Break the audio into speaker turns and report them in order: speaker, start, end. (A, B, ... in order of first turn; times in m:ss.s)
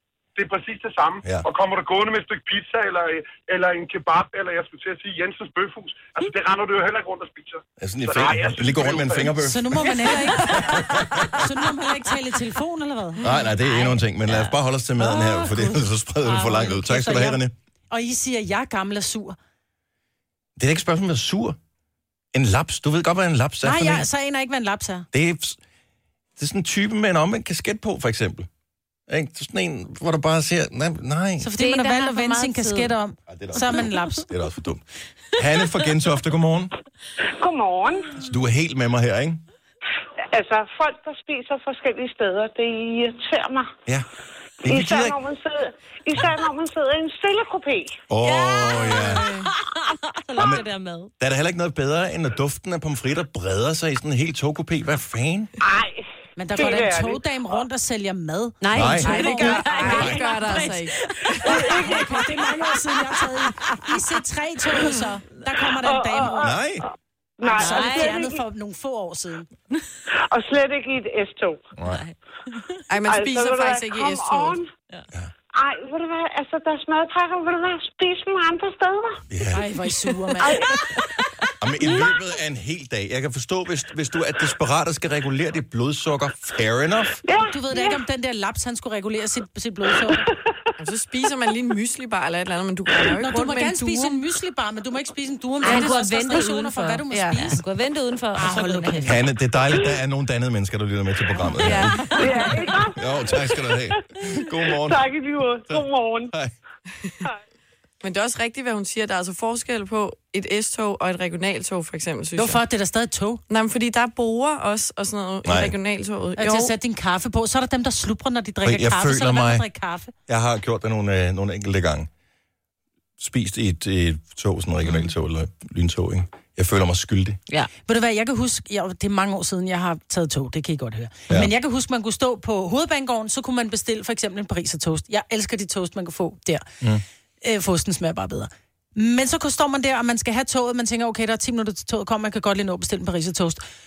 0:00.4-0:09.4 A
0:07.8-0:11.4 B
0:09.4-0:13.2 C
0:13.2-0:17.5 B
0:13.8-0:14.6 D
0:15.2-0:15.6 D
0:16.3-0:19.4 C
0:20.6-0:21.6 B
0:22.3-0:24.1 B
0:23.6-0:25.1 C
0:25.1-0:25.6 B
0:26.4-0:28.5 B
0:29.1-0:31.5 B
0:31.4-0:34.3 C
0:31.6-0:32.9 D
0:33.3-0:34.8 B
0:33.7-0:34.0 D
0:35.4-0:36.7 B
0:37.4-0:38.1 E
0:38.2-0:39.4 B
0:40.3-0:43.7 E
0:44.6-0:45.2 B
0:44.7-0:48.0 E
0:48.1-0:49.3 B
0:48.2-0:51.1 D
0:50.4-0:50.6 B
0:51.2-0:55.5 B
0:55.6-0:55.9 E
0:56.4-1:00.6 C
0:56.6-0:57.1 E
0:58.6-1:01.9 D
0:58.7-0:59.2 B
0:59.2-1:01.0 F
0:59.9-1:00.4 B
1:01.4-1:06.6 C
1:05.8-1:06.4 E
1:06.4-1:06.8 B
1:07.4-1:08.3 E
1:07.5-1:09.5 C
1:07.5-1:08.2 D
1:10.1-1:11.6 E
1:11.9-1:12.2 D
1:12.9-1:14.6 F
1:13.0-1:14.7 E
1:15.5-1:19.2 E
1:19.3-1:19.6 B
1:19.5-1:20.6 C
1:20.4-1:20.7 E
1:21.6-1:27.2 B
1:27.3-1:27.8 E
1:27.5-1:30.3 C
1:30.8-1:34.2 F
1:33.2-1:37.6 C
1:35.6-1:39.1 D
1:37.1-1:37.4 F
1:38.4-1:39.2 C
1:39.0-1:42.0 B
1:41.6-1:42.1 F
1:42.3-1:42.9 E
1:42.7-1:45.1 B
1:44.9-1:46.3 E
1:45.6-1:46.5 B
1:48.0-1:52.6 F
1:52.4-1:53.4 C
1:53.5-1:56.7 F
1:55.4-1:55.8 B
1:56.4-2:00.1 C
1:58.6-1:59.6 B
2:00.3-2:02.1 B
2:03.2-2:07.4 B
2:07.8-2:16.7 C
2:17.4-2:23.6 C